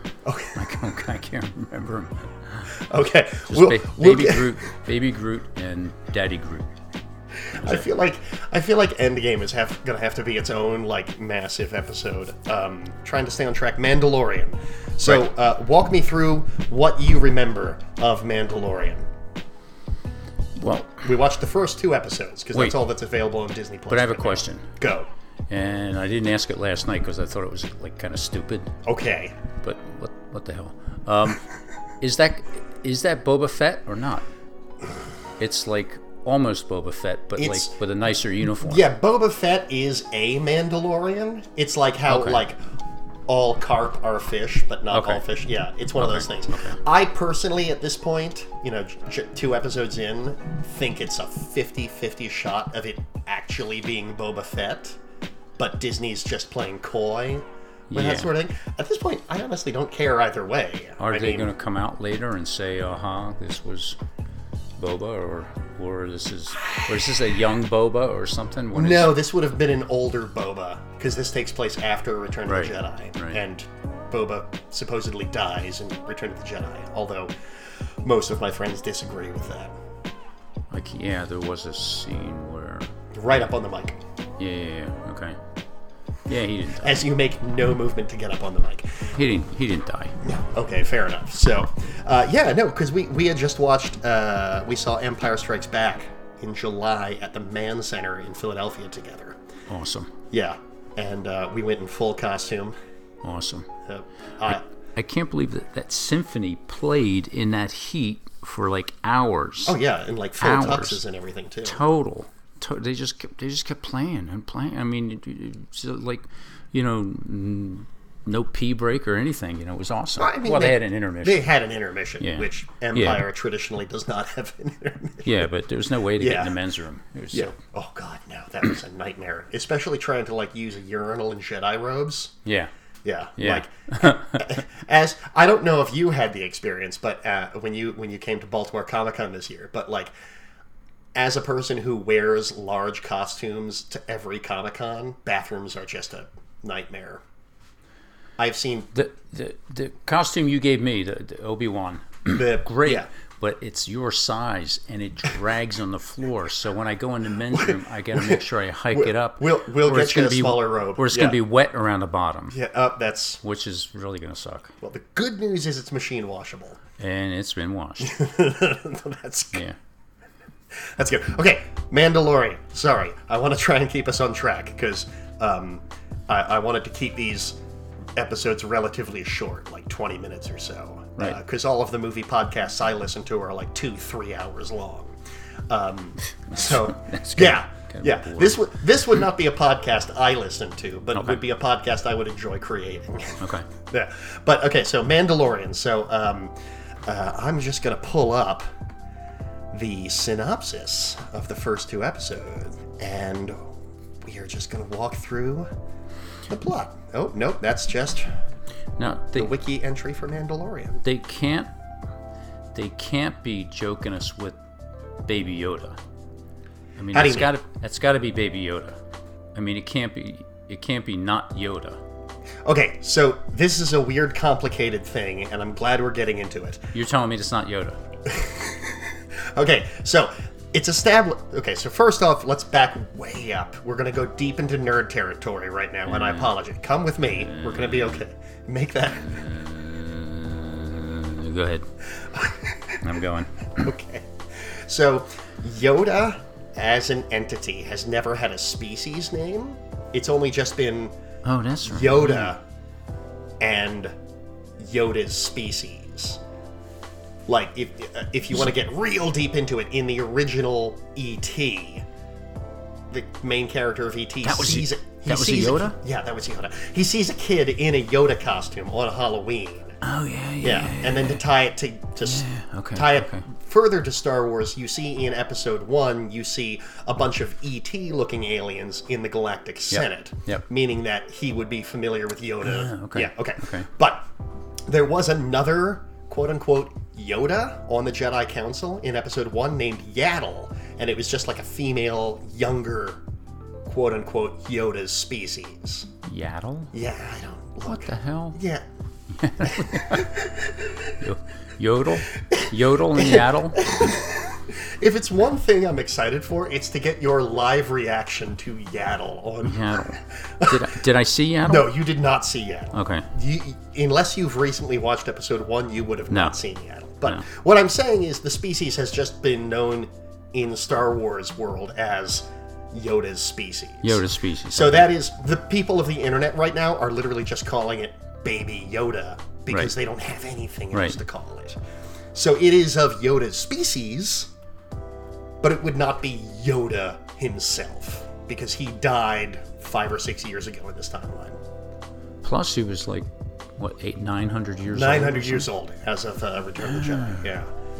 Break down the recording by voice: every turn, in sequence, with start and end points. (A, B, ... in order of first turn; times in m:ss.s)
0:00.2-0:00.6 A
0:00.5-0:02.7 B
0:02.9-0:04.6 A
0:03.5-0:06.7 B
0:07.5-0:19.0 A
0:07.6-0:07.9 B
0:20.6-0:21.1 B
0:21.0-0:25.1 A
0:22.5-0:22.8 B
0:23.9-0:24.7 B
0:25.5-0:28.7 B
0:28.8-0:29.3 A
0:29.6-0:31.4 B
0:32.0-0:34.2 B
0:35.4-0:38.8 B
0:37.4-0:37.7 A
0:38.6-0:42.6 A
0:42.1-0:42.4 B
0:43.3-0:55.0 A
0:44.9-0:45.2 B
0:46.0-0:46.8 B
0:55.6-1:01.5 A
0:57.9-0:58.3 B
1:01.0-1:04.0 B
1:04.8-1:09.2 B
1:08.7-1:17.3 A
1:12.5-1:13.4 B
1:18.0-1:19.7 A
1:20.7-1:23.4 B
1:23.1-1:24.0 A
1:24.4-1:25.4 B
1:26.2-1:27.1 B
1:26.8-1:29.1 A
1:29.1-1:30.2 B
1:30.2-1:39.4 A
1:39.7-1:40.1 B
1:40.3-1:42.7 A
1:43.2-1:43.7 B
1:43.9-1:44.6 A
1:44.5-1:49.8 B
1:49.6-1:51.8 A
1:50.4-1:51.0 B
1:51.6-2:01.4 B
2:00.2-2:05.5 A
2:02.2-2:03.3 B
2:05.2-2:07.5 B
2:06.2-2:06.6 A
2:07.3-2:12.3 A
2:12.4-2:12.7 B
2:13.0-2:20.1 A
2:13.4-2:14.6 B
2:21.1-2:27.2 A
2:28.4-2:28.9 A
2:28.9-2:42.6 B
2:32.3-2:33.1 A
2:37.5-2:41.4 A
2:42.5-2:43.4 A
2:43.4-2:44.7 B
2:44.8-2:46.8 A
2:47.0-2:48.2 B
2:48.0-2:49.6 A
2:50.8-2:57.6 A
2:58.2-3:05.2 A
3:05.7-3:16.5 A
3:06.3-3:08.6 B
3:11.1-3:11.4 B
3:13.4-3:13.7 B
3:17.0-3:18.6 A
3:19.7-3:23.7 A
3:24.2-3:25.7 A
3:26.5-3:28.3 A
3:29.0-3:29.5 B
3:29.3-3:31.0 A
3:31.0-3:31.7 B
3:32.7-3:34.6 B
3:35.3-3:36.0 B
3:37.0-3:39.0 B
3:37.1-3:37.5 A
3:39.5-3:42.0 B
3:42.6-3:46.8 A
3:46.9-3:48.0 B
3:48.3-3:59.4 A
3:56.1-3:56.5 B
3:57.4-3:58.2 B
3:59.1-4:01.9 B
4:02.3-4:03.0 A
4:03.0-4:03.9 B
4:03.8-4:11.1 A
4:11.4-4:12.5 B
4:11.8-4:12.6 A
4:13.6-4:14.1 A
4:14.8-4:16.4 A
4:17.5-4:22.0 A
4:23.1-4:30.0 A
4:24.4-4:26.0 B
4:30.0-4:31.4 B
4:30.6-4:44.2 A
4:32.2-4:33.4 B
4:39.9-4:40.6 B
4:42.6-4:43.9 B
4:44.9-4:53.2 A
4:53.8-4:56.1 A
4:56.2-4:56.9 B
4:56.9-4:58.8 A
4:57.8-4:58.6 B
4:59.3-5:00.3 B
4:59.6-5:01.1 A
5:01.2-5:03.9 B
5:03.1-5:10.9 A
5:09.6-5:11.9 B
5:11.6-5:31.8 A
5:12.9-5:13.3 B
5:16.3-5:16.6 B
5:24.0-5:25.1 B
5:30.9-5:31.2 B
5:32.3-5:34.5 A
5:35.6-5:41.6 A
5:42.4-5:45.7 B
5:44.9-5:47.7 A
5:46.8-5:47.5 B